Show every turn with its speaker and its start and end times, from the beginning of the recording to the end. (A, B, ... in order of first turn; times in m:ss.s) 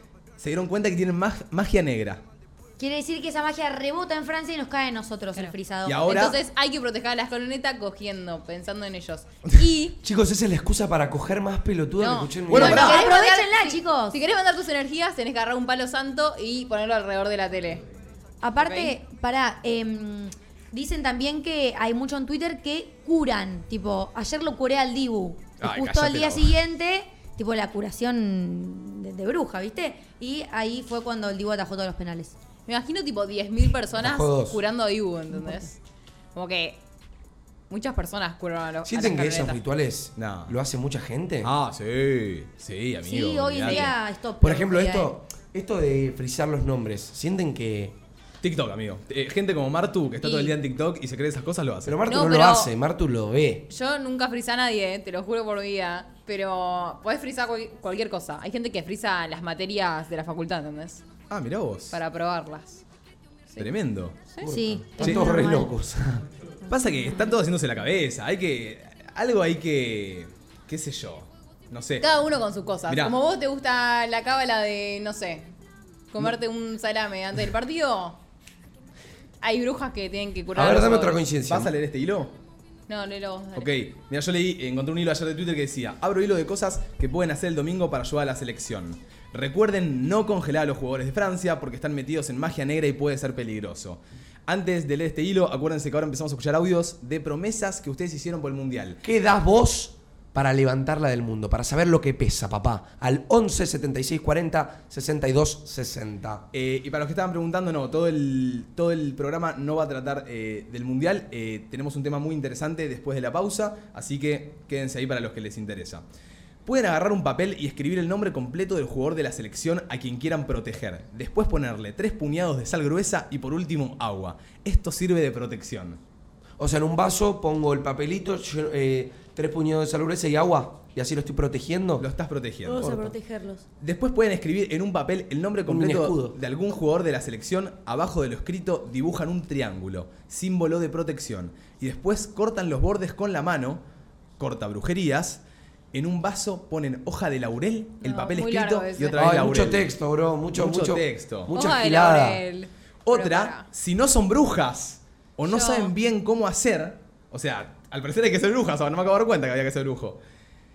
0:00.4-0:02.2 A
0:02.8-0:06.2 B
0:05.8-0:06.4 A
0:06.1-0:10.0 C
0:10.0-0:12.9 D
0:12.0-0:17.8 C
0:12.5-0:13.0 A
0:12.6-0:14.2 B
0:18.4-0:32.3 B
0:18.6-0:18.9 C
0:25.6-0:26.6 A
0:32.7-0:35.8 C
0:34.0-0:34.6 D
0:35.3-0:35.6 B
0:36.3-0:36.8 C
0:37.7-0:39.6 C
0:38.8-0:41.5 D
0:40.2-0:40.6 A
0:41.4-0:43.9 A
0:43.0-0:45.1 B
0:44.4-0:48.0 D
0:48.4-0:52.0 A
0:50.2-0:50.5 C
0:51.8-0:53.7 D
0:52.1-0:52.7 C
0:53.7-1:01.0 C
1:01.3-1:02.0 A
1:01.9-1:02.8 C
1:03.6-1:04.2 A
1:04.4-1:06.2 D
1:04.4-1:05.7 B
1:05.0-1:05.3 A
1:06.7-1:12.1 A
1:12.0-1:15.5 C
1:12.9-1:13.2 A
1:16.1-1:18.2 C
1:19.4-1:21.2 C
1:20.5-1:21.7 D
1:21.5-1:22.4 A
1:22.9-1:23.7 C
1:23.6-1:39.0 A
1:39.0-1:46.4 D
1:46.5-1:56.0 A
1:56.6-2:06.0 A
2:06.6-2:12.0 D
2:12.0-2:13.0 A
2:12.6-2:13.6 B
2:12.8-2:13.1 D
2:13.8-2:23.8 A
2:15.6-2:16.4 D
2:24.4-2:25.4 A
2:25.9-2:29.9 A
2:28.0-2:29.2 C
2:29.2-2:32.4 D
2:30.5-2:31.5 A
2:31.5-2:33.7 C
2:33.0-2:40.2 A
2:35.5-2:35.9 C